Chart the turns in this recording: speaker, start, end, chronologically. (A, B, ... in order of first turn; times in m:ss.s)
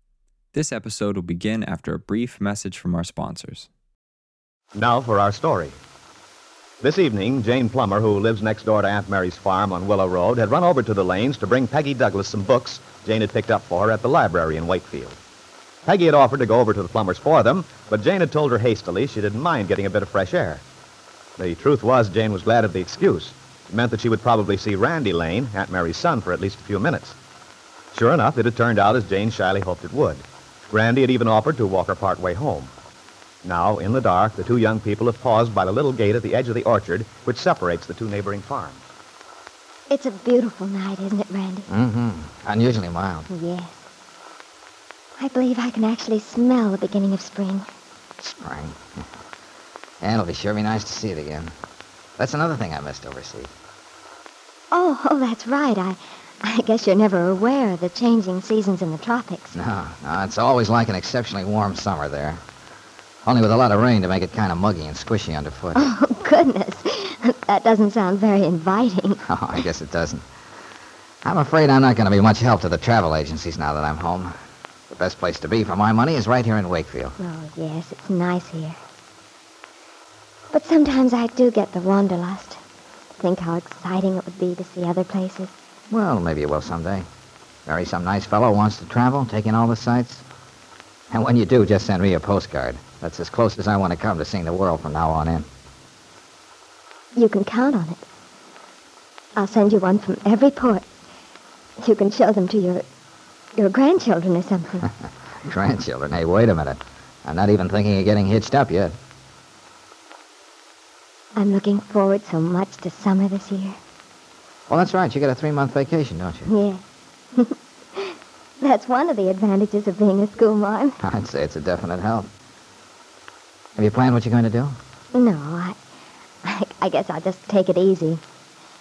0:00.5-0:03.7 A
0:04.7-0:05.8 B
0:06.8-0:15.2 B
0:15.8-0:20.6 B
0:21.4-0:27.2 B
0:27.9-0:32.7 B
0:33.4-0:38.8 B
0:39.9-0:41.7 C
0:41.7-0:43.3 D
0:43.3-0:43.9 C
0:45.2-0:47.6 C
0:48.2-0:48.8 D
0:50.0-0:51.5 D
0:52.2-0:53.5 D
0:54.7-0:59.6 C
0:59.5-1:02.4 D
1:03.2-1:05.9 D
1:05.7-1:09.2 C
1:09.2-1:10.2 D
1:11.2-1:14.3 D
1:14.9-1:17.1 D
1:17.2-1:18.8 C
1:20.5-1:22.6 C
1:23.2-1:25.6 C
1:25.9-1:27.1 D
1:27.7-1:30.2 D
1:31.1-1:35.5 D
1:37.1-1:38.0 C
1:39.4-1:40.8 C
1:41.8-1:42.8 C
1:43.6-1:44.9 C
1:45.4-1:49.0 D
1:51.4-1:53.8 C
1:54.7-1:56.5 D
1:56.5-1:56.8 C
1:57.3-2:01.0 C
2:01.0-2:02.3 D
2:03.8-2:04.8 D
2:05.1-2:05.8 C
2:06.4-2:08.2 C